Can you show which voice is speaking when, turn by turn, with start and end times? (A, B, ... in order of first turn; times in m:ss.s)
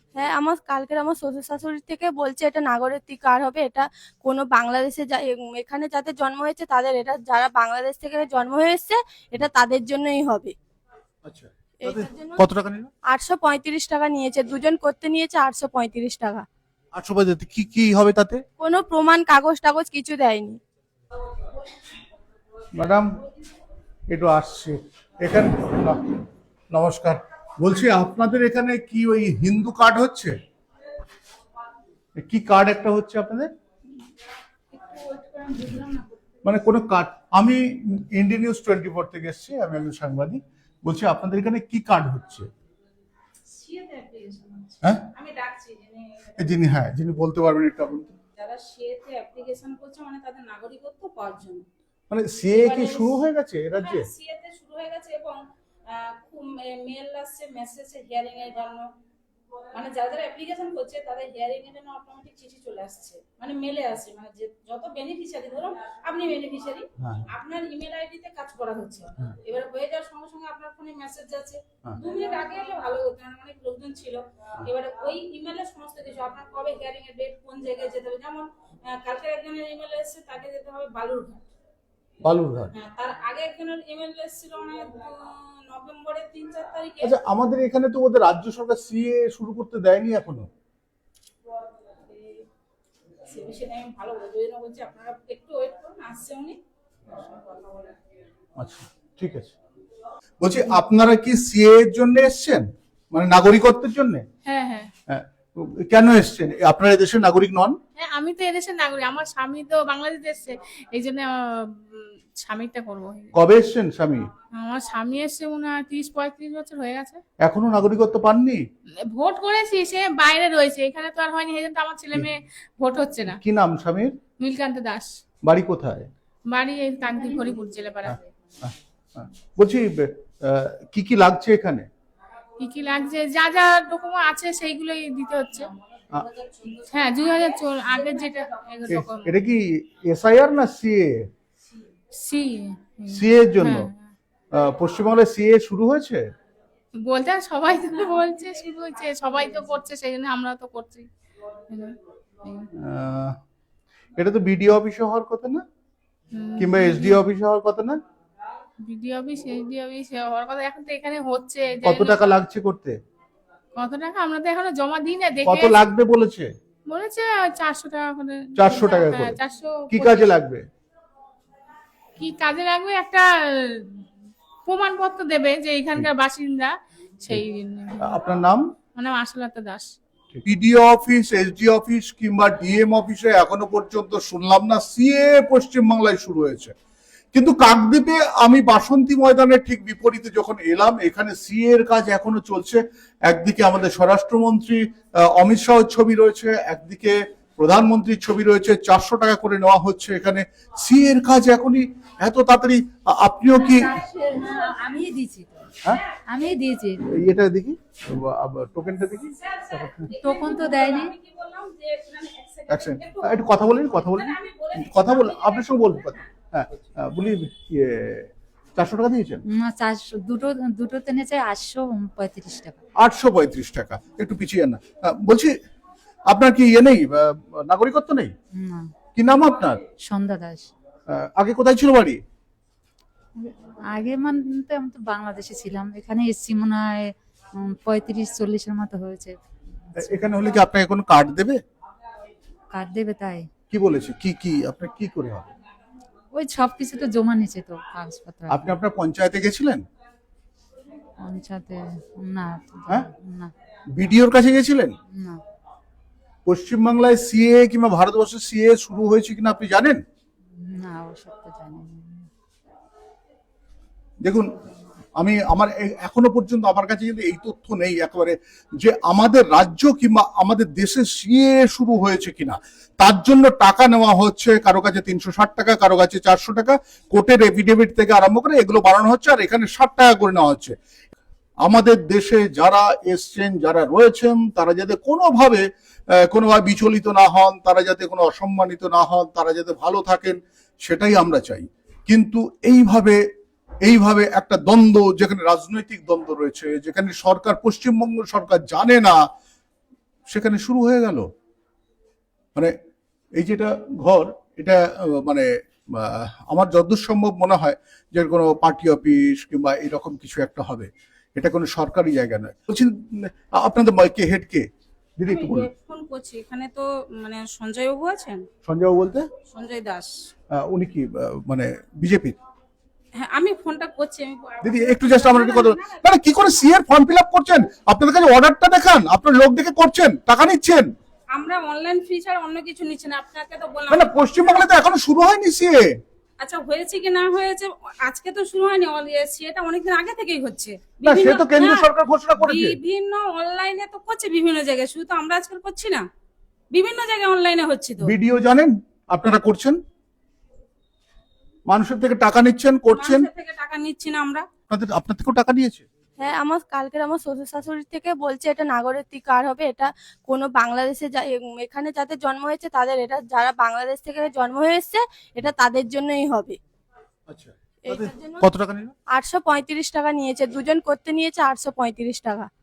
0:00.2-0:10.5 A
0:11.2-0:12.9 B
0:11.8-0:12.4 A
0:13.1-0:16.4 A
0:16.9-0:18.4 B
0:18.6-0:20.6 A
0:22.7-0:23.2 B
0:24.1-0:26.0 B
0:26.7-0:30.3 B
0:32.2-0:33.5 B
0:34.7-0:36.5 C
0:36.4-0:42.5 B
0:43.5-0:46.5 C
0:44.8-0:45.1 B
0:46.4-0:48.1 B
0:48.4-0:51.6 C
0:52.1-0:54.0 B
0:52.5-0:53.2 C
0:53.7-0:58.9 C
0:59.7-1:21.4 C
1:07.0-1:07.2 B
1:22.2-1:22.7 B
1:22.7-1:27.2 C
1:27.0-1:30.5 B
1:32.0-1:32.5 C
1:33.2-1:36.6 C
1:37.3-1:37.9 C
1:38.6-1:39.5 B
1:40.4-1:44.2 B
1:44.4-1:44.9 D
1:45.1-1:47.8 B
1:48.0-1:53.3 D
1:53.3-1:54.3 B
1:54.6-1:57.2 D
1:57.4-1:58.6 B
1:59.1-2:03.4 D
2:03.3-2:04.1 B
2:04.4-2:05.1 D
2:05.4-2:06.1 B
2:06.5-2:08.2 D
2:08.1-2:11.9 B
2:12.6-2:15.7 D
2:16.3-2:16.9 C
2:16.9-2:19.4 D
2:18.9-2:21.2 B
2:22.1-2:24.1 D
2:23.1-2:23.9 B
2:24.5-2:26.2 B
2:27.0-2:31.1 D
2:31.7-2:32.7 D
2:32.7-2:33.4 B
2:34.2-2:35.6 B
2:36.3-2:37.2 D
2:36.6-2:38.0 B
2:38.8-2:42.4 D
2:41.8-2:43.0 B
2:43.8-2:45.8 D
2:45.4-2:46.5 B
2:46.9-2:50.4 D
2:48.5-2:49.4 B
2:49.9-2:50.6 B
2:52.2-2:54.0 D
2:54.6-2:58.2 D
2:58.0-2:58.7 B
2:59.0-2:59.9 D
3:00.3-3:06.7 B
3:07.3-3:24.0 B
3:23.5-3:27.0 E
3:27.2-3:30.0 B
3:29.2-3:36.3 C
3:30.1-3:31.1 E
3:32.7-3:39.4 B
3:39.5-3:42.8 E
3:43.0-3:45.5 B
3:46.3-3:48.3 B
3:48.5-3:48.9 E
3:49.1-3:49.8 B
3:50.1-3:50.7 E
3:51.1-3:52.2 B
3:53.4-3:59.4 E
3:59.9-4:00.6 E
4:00.0-4:01.6 B
4:02.7-4:03.5 E
4:03.7-4:05.5 B
4:06.3-4:08.8 E
4:08.5-4:09.8 B
4:11.2-4:13.5 E
4:14.0-4:15.0 B
4:15.1-4:15.4 E
4:16.5-4:20.0 B
4:20.5-4:22.3 E
4:24.2-4:24.5 B
4:25.2-4:40.7 B
4:41.6-4:45.6 B
4:46.2-4:53.2 B
4:53.8-4:59.2 B
5:00.3-5:01.3 B
5:03.4-5:14.6 B
5:15.2-5:15.7 B
5:15.2-5:18.4 C
5:18.6-5:19.3 B
5:19.5-5:20.1 C
5:20.5-5:22.4 B
5:23.2-5:26.6 C
5:24.6-5:30.9 B
5:31.3-5:34.6 C
5:33.9-5:35.9 B
5:36.4-5:46.0 C
5:41.0-5:42.8 B
5:46.7-5:48.1 C
5:48.0-5:49.8 B
5:51.7-5:53.3 B
5:52.9-5:54.4 C
5:54.7-5:55.8 B
5:56.2-6:06.6 A
6:07.3-6:08.9 B
6:07.8-6:08.4 A
6:09.1-6:12.5 A